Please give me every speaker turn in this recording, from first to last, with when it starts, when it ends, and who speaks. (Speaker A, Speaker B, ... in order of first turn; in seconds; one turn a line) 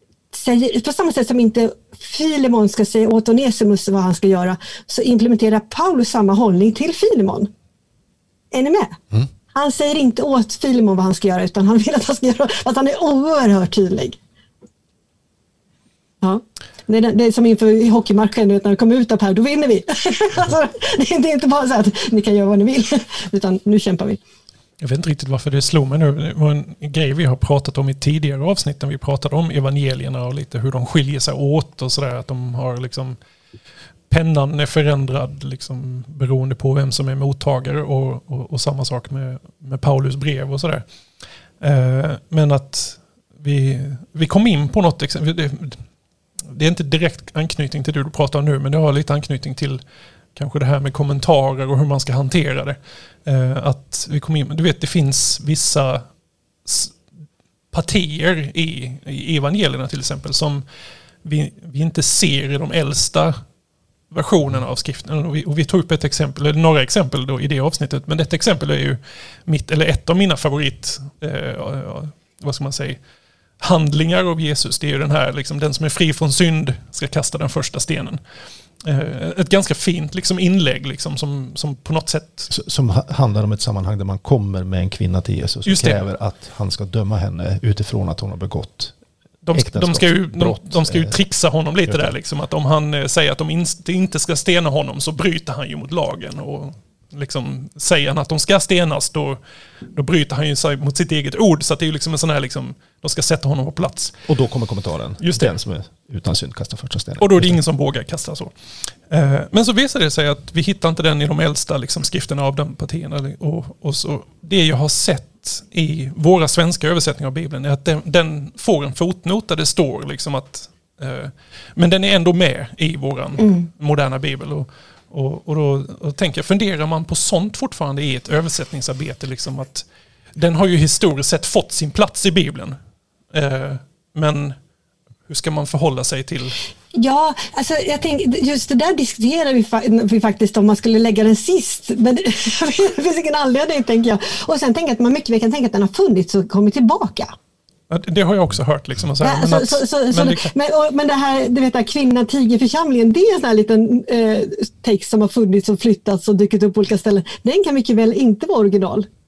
Speaker A: 0.3-7.5
Speaker A: 8.5-9.0
Speaker A: 9.5-14.2
Speaker A: 16.2-24.2
Speaker B: 24.8-33.2
Speaker B: 34.1-40.8
Speaker B: 41.6-45.8
Speaker B: 46.4-49.8
Speaker B: 50.4-56.1
Speaker B: 56.6-56.9
Speaker B: 57.7-60.6
Speaker B: 61.2-63.4
Speaker B: 64.1-73.0
Speaker B: 73.6-78.2
Speaker B: 78.8-82.5
Speaker C: 82.5-88.9
Speaker B: 85.6-86.0
Speaker B: 89.4-99.4
Speaker C: 89.5-91.2
Speaker C: 91.9-92.1
Speaker B: 99.9-104.1
Speaker C: 104.3-107.6
Speaker B: 105.2-105.5
Speaker B: 107.2-108.5
Speaker B: 109.1-132.8
Speaker B: 133.3-134.5
Speaker B: 135.3-136.6
Speaker A: 136.9-147.3
Speaker B: 147.9-150.5
Speaker A: 149.2-159.1